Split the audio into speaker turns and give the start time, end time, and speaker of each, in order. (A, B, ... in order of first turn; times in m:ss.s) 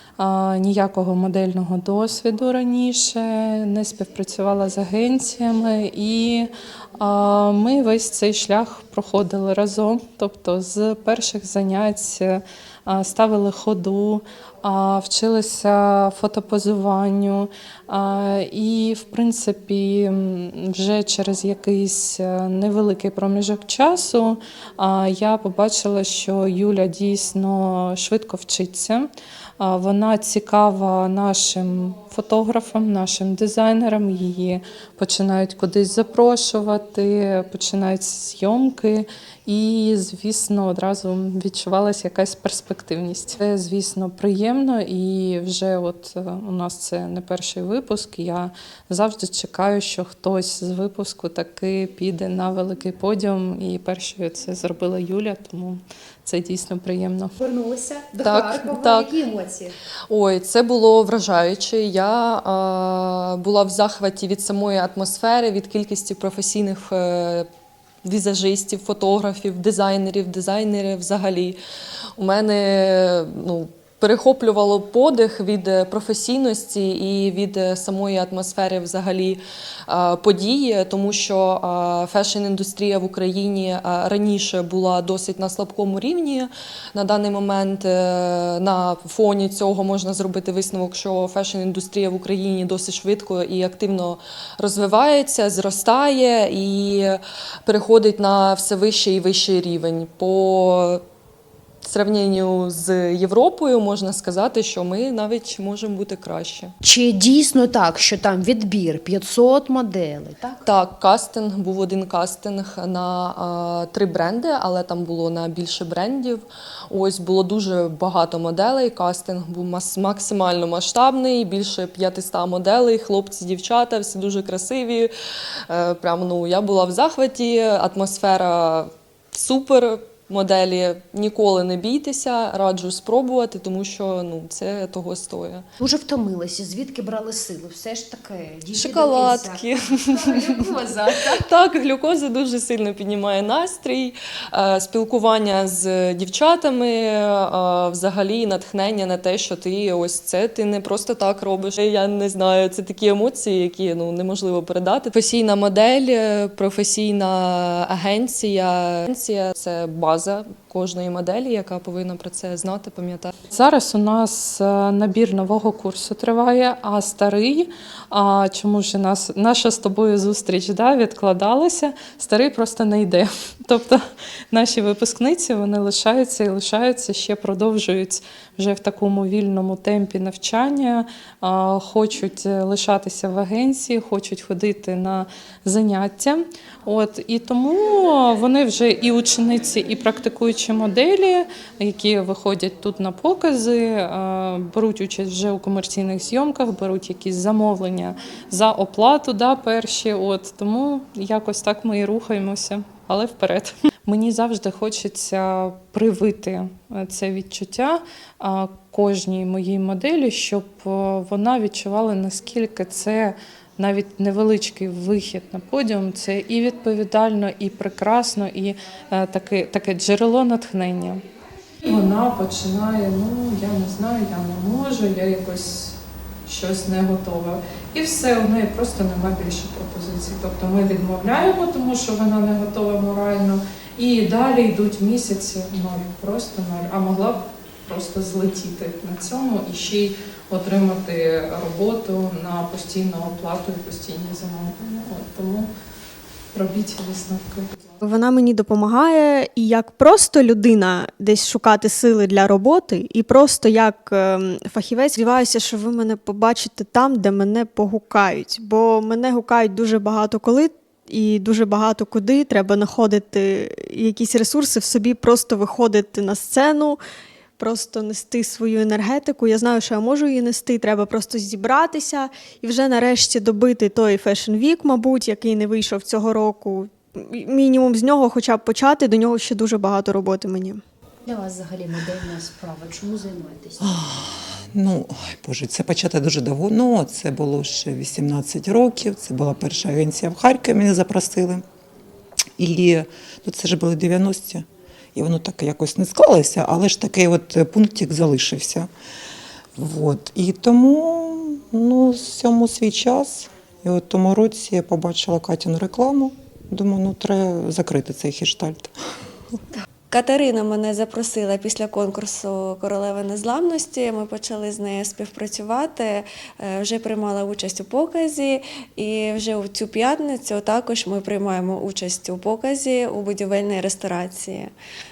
0:00.2-0:29.1 A
0:29.6-0:57.3 A
0:57.4-0:59.7 B
0:58.2-0:59.1 C
1:00.1-1:07.4 C
1:08.0-1:11.6 C
1:12.2-1:41.0 C
1:41.8-1:46.7 C
1:46.8-1:50.6 B
1:50.6-2:05.1 C
2:05.7-2:15.6 C
2:15.8-2:21.4 B
2:18.8-2:43.4 C
2:43.5-3:41.2 A
3:41.8-3:45.9 A
3:46.4-4:05.7 A
4:06.5-4:07.7 A
4:08.0-4:27.0 D
4:27.6-4:40.8 D
4:41.2-4:44.0 B
4:43.8-4:51.6 E
4:52.6-4:58.9 E
4:59.8-5:08.9 E
5:10.1-5:24.7 F